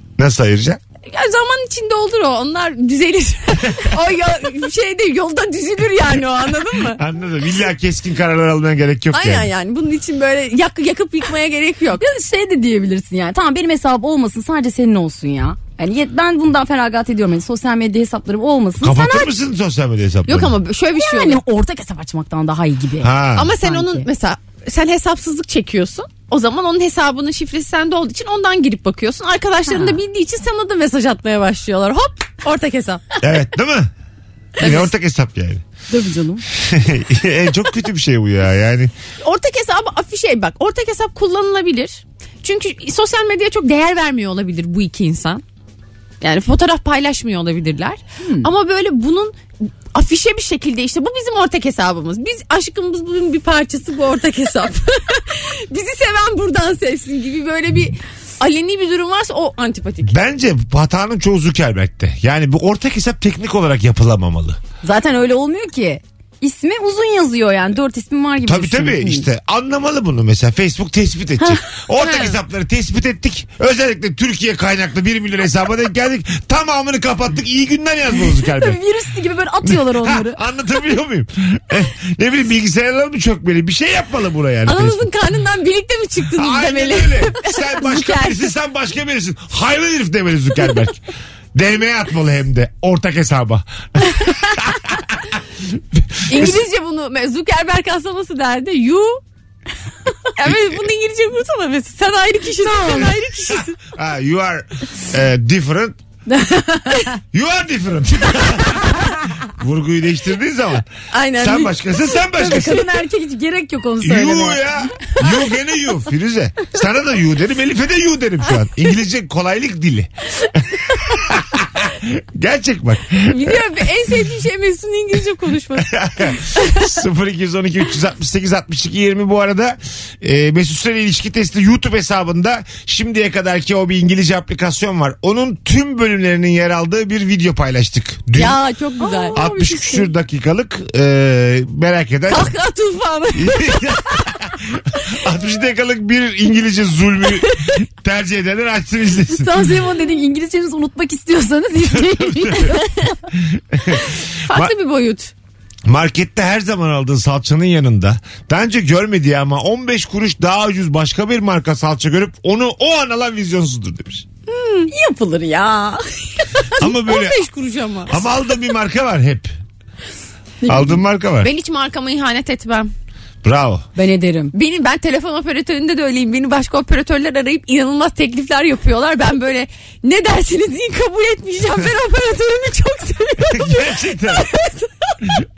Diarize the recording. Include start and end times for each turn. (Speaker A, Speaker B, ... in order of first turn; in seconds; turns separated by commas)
Speaker A: 0.2-0.8, Speaker B: 1.1-7.0, Speaker A: 7.0-9.5, Speaker B: 9.1-12.0, Speaker C: 12.0-19.3, Speaker A: 18.8-20.6, Speaker B: 20.3-21.4, Speaker C: 21.0-24.1, Speaker A: 23.0-23.6, Speaker B: 23.4-33.2, Speaker C: 29.7-30.0, Speaker A: 33.2-33.9, Speaker A: 34.6-35.6, Speaker B: 34.6-34.9, Speaker C: 35.9-36.5, Speaker A: 36.5-38.9, Speaker B: 39.2-45.4, Speaker B: 46.2-60.1, Speaker C: 48.2-48.5, Speaker A: 60.1-64.6, Speaker C: 64.8-69.3, Speaker A: 68.4-78.8, Speaker B: 72.0-72.4, Speaker C: 78.4-80.4, Speaker A: 79.6-85.1, Speaker B: 84.7-88.5, Speaker A: 86.3-91.0, Speaker A: 91.5-96.6, Speaker B: 96.3-99.2, Speaker B: 100.4-103.8, Speaker A: 100.5-100.8, Speaker C: 102.6-103.2, Speaker A: 103.9-106.0, Speaker C: 106.3-107.1, Speaker A: 107.3-112.9, Speaker B: 111.1-111.8, Speaker C: 112.4-114.6, Speaker A: 114.0-120.1, Speaker A: 120.7-123.6, Speaker B: 123.3-126.9, Speaker A: 125.8-138.6, Speaker B: 138.3-139.5, Speaker C: 139.0-140.1, Speaker A: 139.3-142.5, Speaker B: 142.3-144.0, Speaker A: 143.3-149.7, Speaker C: 149.3-152.9, Speaker A: 151.8-152.8, Speaker B: 152.7-153.1, Speaker A: 153.3-154.7, Speaker B: 154.4-155.3, Speaker A: 155.8-164.2, Speaker B: 164.5-164.9, Speaker C: 164.9-166.0, Speaker A: 166.8-167.4, Speaker B: 166.8-168.2, Speaker A: 168.1-169.6, Speaker C: 170.6-170.9, Speaker A: 170.7-171.5, Speaker B: 171.4-172.9, Speaker A: 173.4-173.9, Speaker C: 174.0-174.5, Speaker B: 174.5-185.2, Speaker A: 183.5-184.5